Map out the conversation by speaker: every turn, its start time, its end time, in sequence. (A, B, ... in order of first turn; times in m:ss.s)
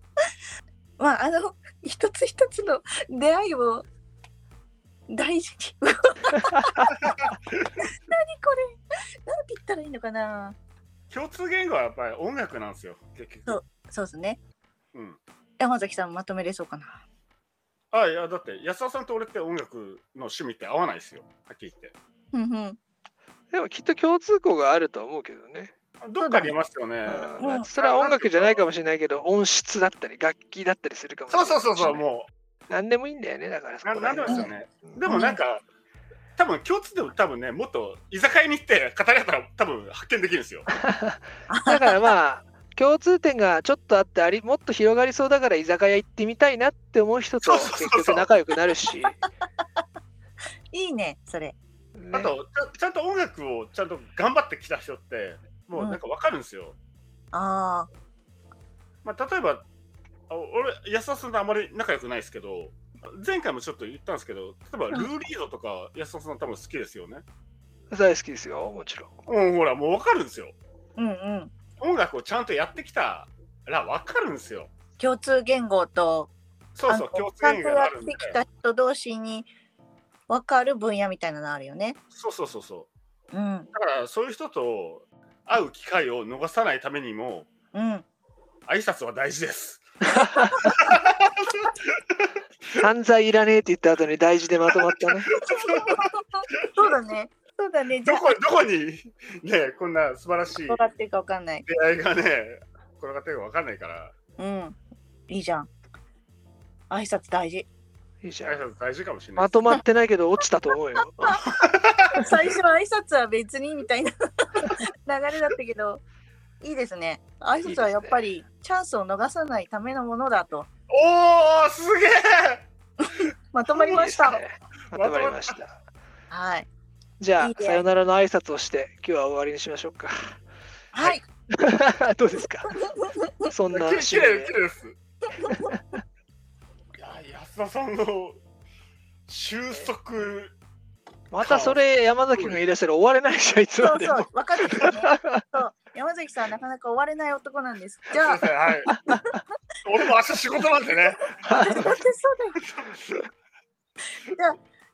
0:01.0-0:03.8 A
0:05.1-0:06.9 A
0:06.9-0:07.7 B
0:07.8-0:08.8 A
0:09.3-0:10.6 A
0:11.1-0:13.6 B
0:13.5-0:14.4 A
0:14.9-0:15.2 B
0:15.6-0:17.0 A
0:17.9-0:21.9 B
0:22.3-0:22.8 A
0:23.5-0:25.7 C
0:26.0-0:28.6 B
0:26.2-0:26.6 A
0:27.1-0:32.0 C
0:27.4-0:27.7 A
0:31.3-0:32.3 B
0:32.7-0:35.0 C
0:33.8-0:35.6 B
0:35.1-0:35.4 A
0:36.4-0:40.7 B
0:40.9-0:49.2 C
0:41.5-0:42.1 A
0:47.4-0:48.3 B
0:50.7-0:51.6 A
0:52.0-0:52.3 C
0:52.1-0:56.8 B
0:57.3-0:57.9 A
0:59.0-0:59.7 B
1:00.3-1:07.2 B
1:07.9-1:09.2 C
1:09.3-1:10.6 B
1:11.0-1:11.5 A
1:11.8-1:14.7 B
1:15.0-1:16.3 A
1:16.8-1:18.4 B
1:16.9-1:19.5 A
1:20.3-1:22.0 A
1:22.1-1:22.9 B
1:23.3-1:23.7 A
1:23.7-1:27.5 B
1:27.7-1:28.0 A
1:28.7-1:29.8 B
1:30.2-1:30.7 C
1:30.6-1:31.7 B
1:32.8-1:35.3 C
1:35.4-1:36.0 B
1:35.4-1:38.4 A
1:38.0-1:40.9 B
1:40.7-1:41.7 A
1:41.7-1:44.1 B
1:44.4-1:44.8 A
1:45.3-1:45.7 A
1:46.9-1:47.7 A
1:48.2-1:48.6 C
1:48.4-1:49.7 B
1:49.4-1:51.4 C
1:51.4-1:52.3 B
1:52.1-1:56.0 A
1:56.6-2:00.7 A
1:57.6-1:58.2 C
2:00.9-2:02.7 B
2:03.5-2:04.4 A
2:03.7-2:04.1 B
2:03.9-2:05.8 C
2:04.9-2:05.5 B
2:06.3-2:06.7 A
2:07.2-2:10.4 C
2:07.4-2:07.8 A
2:10.9-2:11.2 A
2:11.6-2:12.9 C
2:13.0-2:13.3 A
2:13.4-2:14.6 C
2:13.7-2:15.0 B
2:15.5-2:16.0 C
2:17.0-2:18.4 B
2:19.3-2:20.6 B
2:21.3-2:25.4 C
2:21.4-2:21.8 B
2:22.3-2:22.6 B
2:23.8-2:28.5 A
2:28.2-2:28.9 B
2:28.9-2:29.4 C
2:29.8-2:31.9 B
2:31.4-2:32.0 C
2:31.6-2:32.6 A
2:32.7-2:33.3 B